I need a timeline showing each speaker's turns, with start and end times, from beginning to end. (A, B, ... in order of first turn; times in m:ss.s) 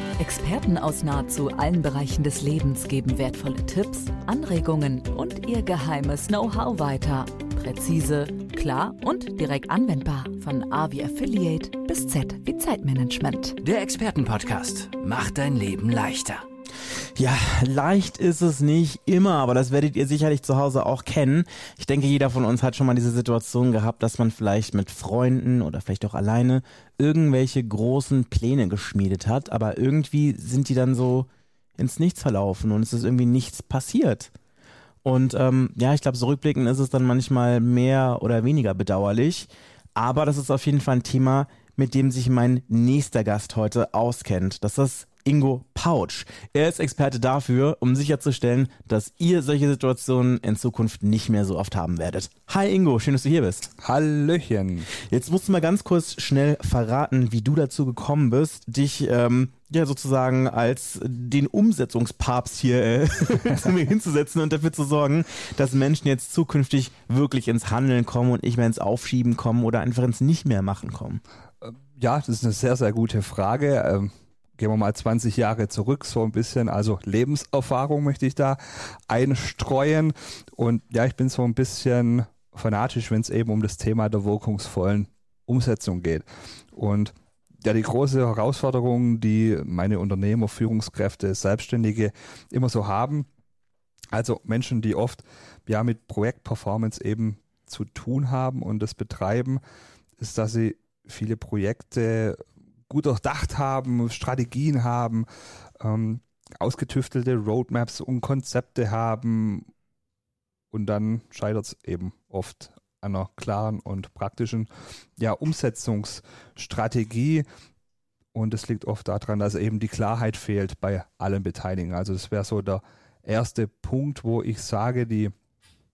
0:00.2-0:13.6 A
0:13.6-0:16.4 B
0:17.2-0:34.3 C
0:35.0-0:53.7 C
0:53.8-0:54.9 D
0:54.9-1:11.2 C
1:11.6-1:33.3 D
1:34.1-1:39.6 D
1:40.2-1:45.3 D
1:45.8-1:49.7 D
1:50.7-1:57.4 D
1:58.3-2:05.3 D